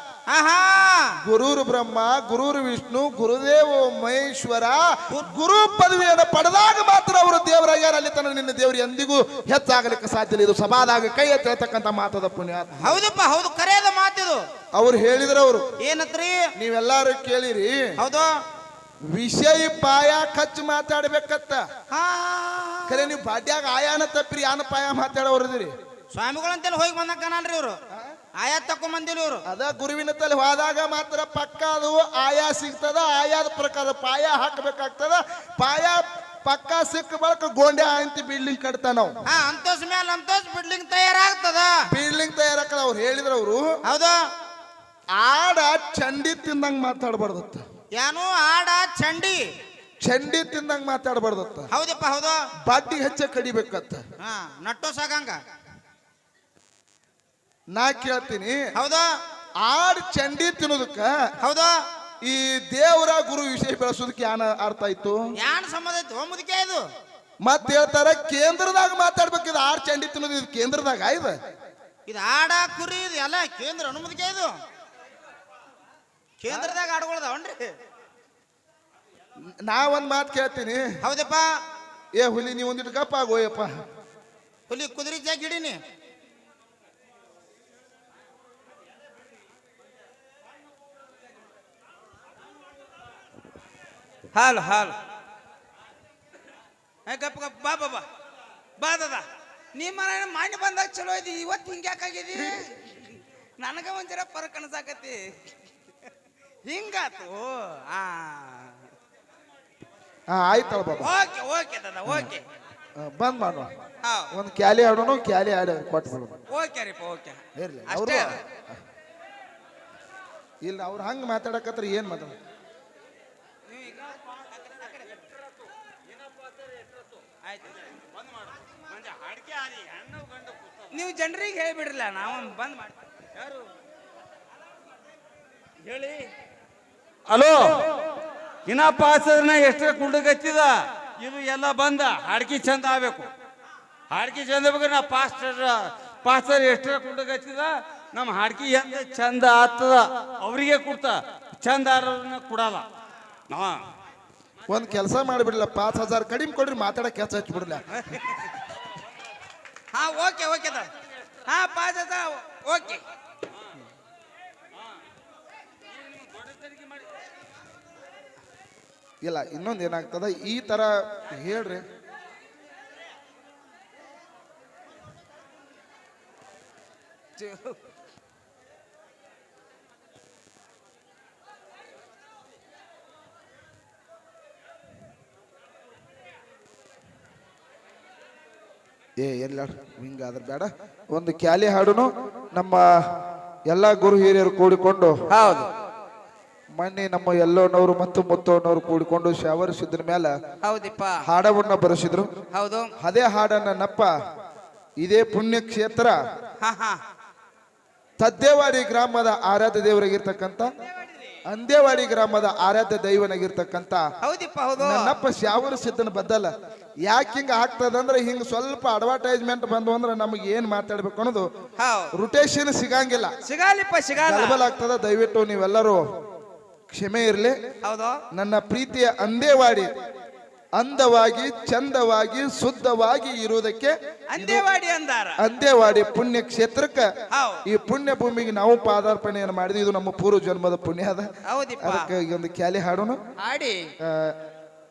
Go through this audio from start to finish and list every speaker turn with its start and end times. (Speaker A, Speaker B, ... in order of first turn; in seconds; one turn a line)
Speaker A: 0.3-1.1
Speaker B: 1.2-13.0
Speaker A: 12.8-14.4
Speaker B: 14.7-15.7
Speaker A: 15.8-16.5
Speaker B: 16.6-17.9
Speaker A: 18.0-18.3
Speaker B: 19.1-21.6
Speaker A: 21.9-23.1
Speaker B: 22.9-25.7
Speaker A: 26.1-27.8
Speaker A: 28.4-29.4
Speaker B: 29.5-39.2
Speaker A: 39.2-41.7
Speaker B: 41.9-43.7
Speaker A: 43.8-44.2
Speaker B: 45.1-47.6
Speaker A: 48.0-49.4
Speaker B: 50.0-51.7
Speaker A: 51.7-52.4
Speaker B: 52.6-54.0
Speaker A: 54.2-55.4
Speaker B: 57.7-58.6
Speaker A: 58.7-59.1
Speaker B: 59.6-61.1
Speaker A: 61.4-61.8
Speaker B: 62.2-65.2
Speaker A: 65.4-66.8
Speaker B: 67.4-71.4
Speaker A: 72.1-74.5
Speaker A: 76.4-77.7
Speaker B: 76.5-76.7
Speaker B: 79.6-81.0
Speaker A: 81.0-81.5
Speaker B: 82.1-83.7
Speaker A: 84.7-85.8
Speaker A: 94.3-95.0
Speaker A: 97.1-98.0
Speaker A: 98.8-105.2
Speaker A: 106.6-108.7
Speaker B: 110.3-111.1
Speaker A: 111.0-112.4
Speaker B: 112.0-112.3
Speaker B: 113.0-113.7
Speaker A: 114.0-114.3
Speaker B: 114.3-116.4
Speaker A: 116.5-118.4
Speaker B: 117.6-118.7
Speaker B: 120.6-122.3
Speaker A: 123.7-125.0
Speaker A: 127.4-127.7
Speaker C: 128.8-130.9
Speaker A: 130.9-133.6
Speaker C: 135.8-136.3
Speaker C: 137.3-138.0
Speaker C: 138.7-143.3
Speaker C: 144.1-152.8
Speaker C: 153.5-153.8
Speaker B: 154.7-158.2
Speaker A: 158.1-158.5
Speaker A: 159.9-160.9
Speaker A: 161.4-163.0
Speaker C: 166.1-166.9
Speaker B: 169.2-171.8
Speaker A: 177.4-177.8
Speaker B: 189.2-192.8
Speaker B: 193.7-195.1
Speaker A: 195.3-195.7
Speaker B: 196.8-200.3
Speaker A: 200.6-201.2
Speaker B: 201.2-202.3
Speaker A: 202.5-202.9
Speaker B: 203.0-204.1
Speaker B: 205.0-206.2
Speaker A: 206.6-207.0
Speaker B: 208.2-210.7
Speaker A: 211.0-211.3
Speaker B: 211.4-214.0
Speaker A: 214.2-215.2
Speaker B: 214.8-216.5
Speaker B: 217.0-221.5
Speaker A: 221.8-222.1
Speaker B: 222.1-223.3
Speaker A: 223.4-224.6
Speaker B: 224.2-226.0
Speaker B: 226.9-227.6
Speaker A: 227.8-228.2
Speaker B: 228.3-229.9
Speaker B: 230.8-234.7
Speaker A: 234.3-235.4
Speaker B: 235.4-237.1
Speaker A: 237.3-237.6
Speaker B: 237.7-243.2
Speaker A: 241.4-242.1
Speaker A: 243.4-243.9
Speaker B: 244.0-244.4